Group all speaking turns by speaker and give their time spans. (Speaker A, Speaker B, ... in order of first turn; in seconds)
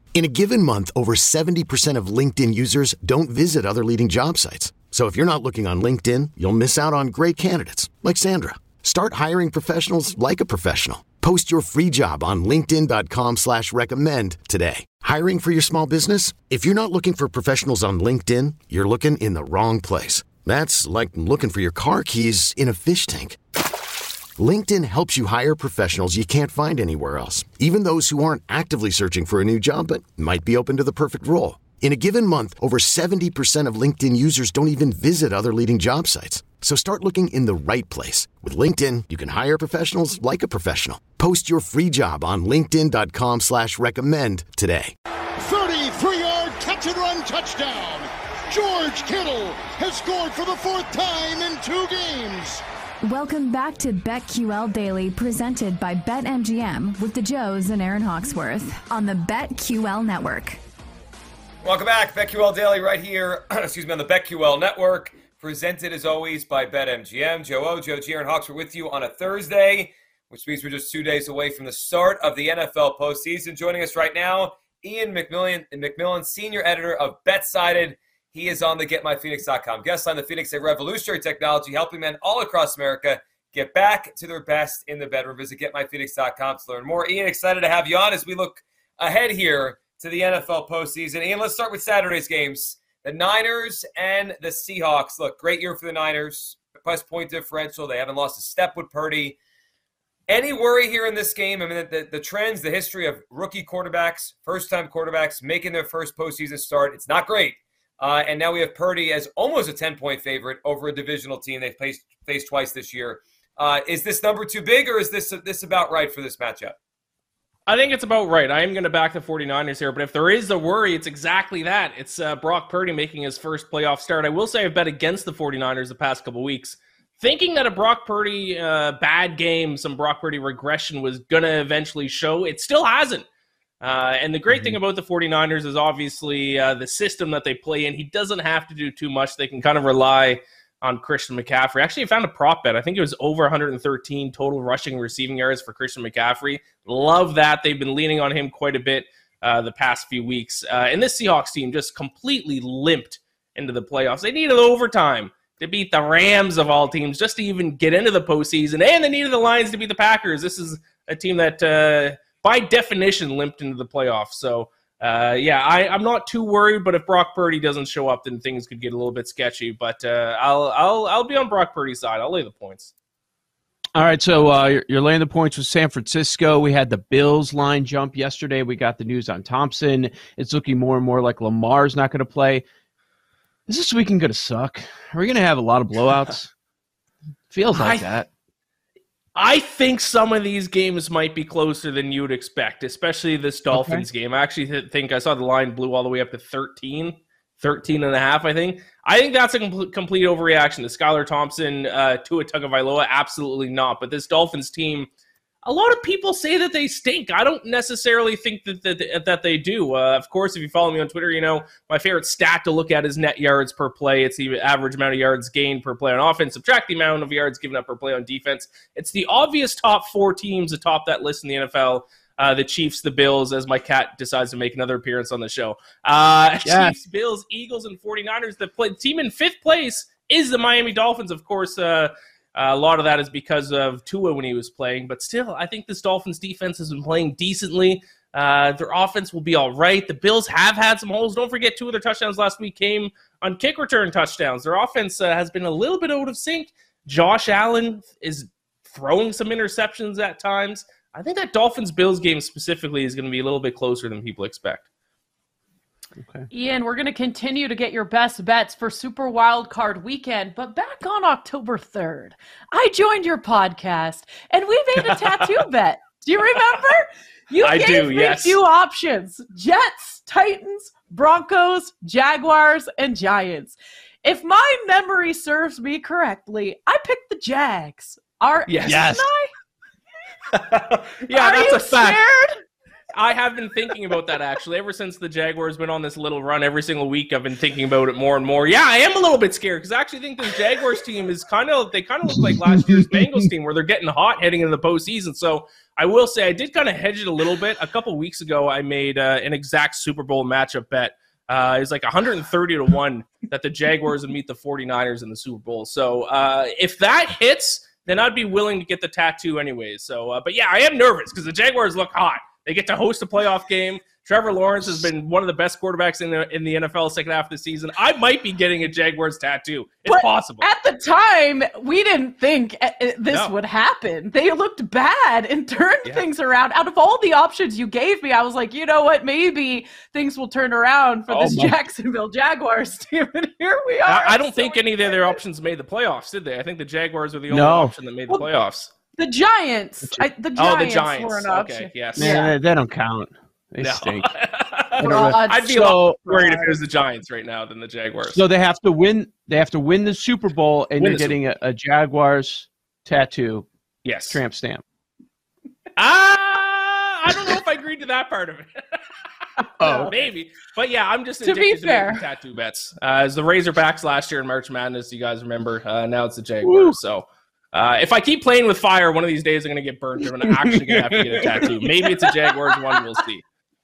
Speaker A: 0.1-23.4, 24.4-44.9
Speaker B: 45.4-52.6
Speaker C: 53.0-60.6
Speaker D: 61.6-99.4, 100.3-116.8
Speaker E: 117.7-133.2, 133.8-172.9, 187.8-188.2, 189.3-205.1, 205.7-254.8, 265.1-265.6, 267.6-268.6, 278.7-279.2, 280.5-282.2, 283.1-320.6, 323.3-323.5, 334.0-338.9, 340.5-342.4, 343.8-348.4, 351.0-351.4, 354.0-354.4, 355.9-359.0, 359.8-373.4
Speaker F: 134.5-134.8, 174.0-182.6, 183.7-186.5, 187.5-188.3, 193.7-194.1, 226.7-227.0, 256.2-256.5, 331.3-331.8, 337.5-337.9, 340.0-340.3, 342.1-344.3, 345.0-346.3, 348.3-353.6, 354.3-354.8, 359.8-360.1, 366.6-367.0, 370.2-372.3
Speaker G: 256.5-267.0, 267.5-279.4, 281.3-282.4, 320.1-335.4, 339.2-342.5, 345.0-345.6, 346.3-346.7, 361.4-362.2